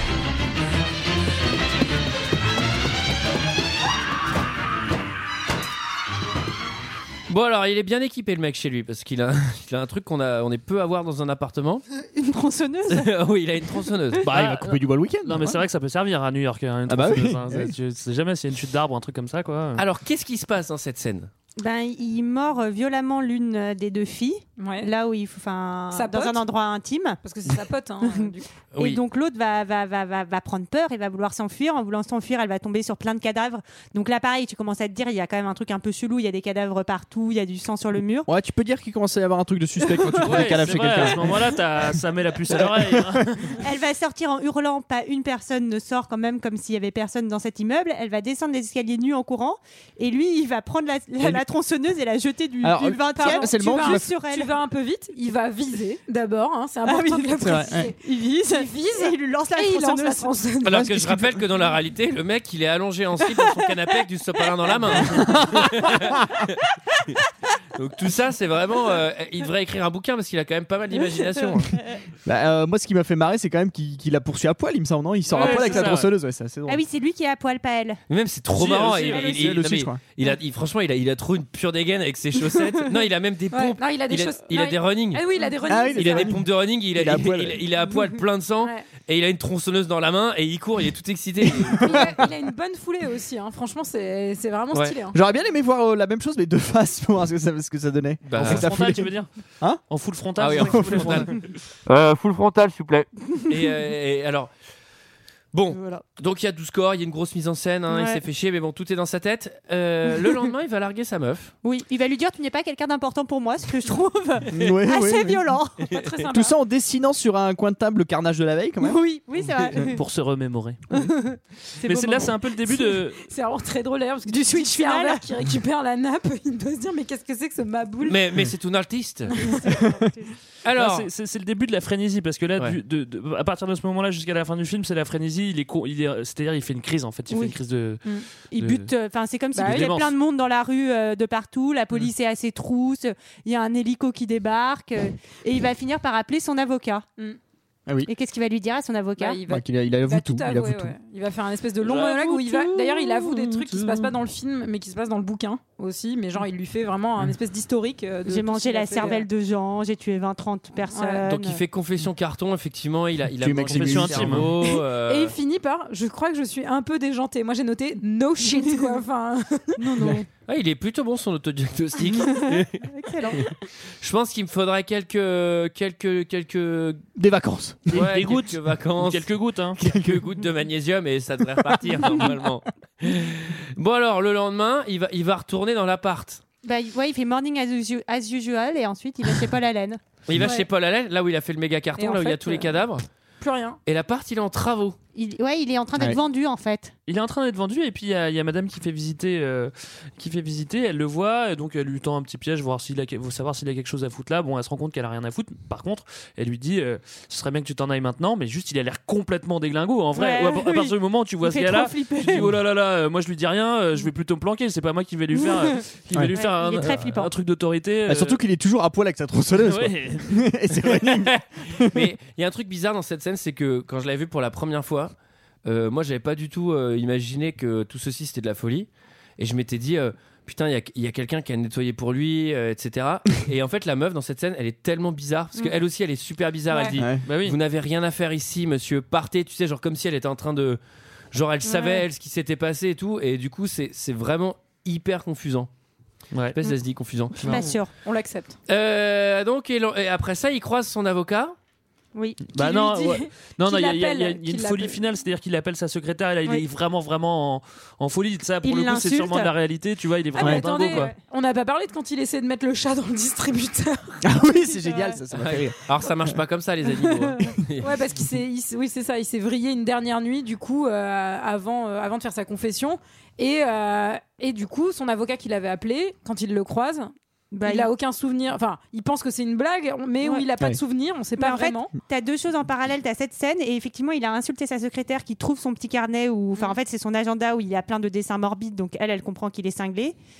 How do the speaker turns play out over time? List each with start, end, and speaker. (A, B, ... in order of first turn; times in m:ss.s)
0:07.3-0:11.8 A
0:12.1-0:13.1 B
0:12.9-0:14.2 A
0:14.2-0:19.8 C
0:14.3-0:15.6 D
0:16.9-0:17.7 D
0:19.8-0:21.3 A
0:21.6-0:27.2 B
0:24.6-0:24.9 E
0:25.9-0:26.4 E
0:27.2-0:28.5 E
0:28.0-0:38.3 B
0:28.7-0:29.0 A
0:38.2-0:41.9 D
0:40.2-0:43.6 C
0:42.5-0:43.2 D
0:43.6-0:54.5 B
0:51.2-0:51.4 D
0:52.6-0:54.1 D
0:53.1-1:00.8 E
0:56.8-1:00.3 B
0:57.4-0:57.9 D
1:00.6-1:06.6 A
1:00.6-1:01.4 D
1:05.1-1:06.4 D
1:07.7-1:11.7 A
1:11.7-1:12.0 B
1:12.2-1:16.8 D
1:15.3-1:16.1 C
1:15.4-1:15.7 B
1:16.7-1:18.0 B
1:18.1-1:25.2 A
1:18.5-1:19.4 C
1:19.1-1:20.0 D
1:23.5-1:26.3 E
1:25.7-1:27.6 D
1:25.9-1:32.2 A
1:31.6-1:32.2 D
1:31.8-1:35.2 E
1:35.1-1:39.8 D
1:38.2-1:38.7 A
1:38.4-1:39.3 C
1:39.9-1:41.5 C
1:40.4-1:41.3 A
1:40.4-1:41.3 D
1:41.8-1:44.5 A
1:45.5-1:51.5 A
1:45.7-1:46.0 B
1:47.9-1:48.2 B
1:51.6-1:55.9 B
1:54.5-1:55.4 D
1:55.9-1:56.5 E
1:56.3-1:59.0 D
1:58.8-2:00.0 B
1:59.8-2:01.0 C
2:00.9-2:02.3 B
2:01.8-2:03.2 C
2:03.2-2:08.2 E
2:04.3-2:05.2 B
2:08.0-2:09.4 A
2:09.3-2:10.0 E
2:09.6-2:10.1 B
2:10.6-2:11.1 A
2:10.7-2:18.0 C
2:18.5-2:27.1 B
2:18.5-2:18.9 C
2:19.5-2:19.9 E
2:19.6-2:20.1 C
2:28.0-2:29.4 B
2:29.2-2:39.2 E
2:29.5-2:30.9 D
2:31.8-2:32.7 C
2:33.3-2:34.0 C
2:38.2-2:41.6 B
2:40.9-2:41.2 E
2:41.2-2:45.3 A
2:43.4-2:44.5 D
2:43.7-2:44.5 C
2:44.7-2:50.0 E
2:48.4-2:48.9 B
2:49.8-2:50.3 B
2:50.5-2:52.8 A
2:52.1-2:53.5 B
2:54.0-2:57.0 A
2:57.2-2:58.1 D
2:57.9-3:06.4 A
2:57.9-2:59.8 C
2:59.8-3:00.2 D
3:06.6-3:10.0 B
3:10.2-3:13.0 A
3:10.4-3:10.6 E
3:12.0-3:12.8 E
3:13.4-3:13.8 E
3:13.8-3:15.0 A
3:15.1-3:16.9 B
3:17.1-3:38.4 C
3:30.1-3:32.5 B
3:36.3-3:37.3 B
3:38.1-3:42.0 D
3:39.6-3:40.4 C
3:41.0-3:45.1 A
3:45.6-4:00.8 A
3:57.0-3:57.2 D
3:57.2-3:57.6 C
4:01.3-4:05.7 A
4:01.6-4:02.0 B
4:06.5-4:07.6 A
4:07.5-4:07.9 B
4:07.5-4:08.6 E
4:08.7-4:11.6 A
4:12.1-4:12.5 B
4:12.5-4:21.1 C
4:12.5-4:15.0 E
4:18.6-4:19.5 B
4:20.3-4:24.2 E
4:20.4-4:20.6 D
4:20.8-4:21.1 B
4:24.2-4:25.8 D
4:24.8-4:25.1 B
4:25.3-4:27.9 A
4:27.8-4:37.1 E
4:37.5-4:37.9 B
4:37.6-4:41.9 E
4:40.2-4:40.5 B
4:41.4-4:50.2 B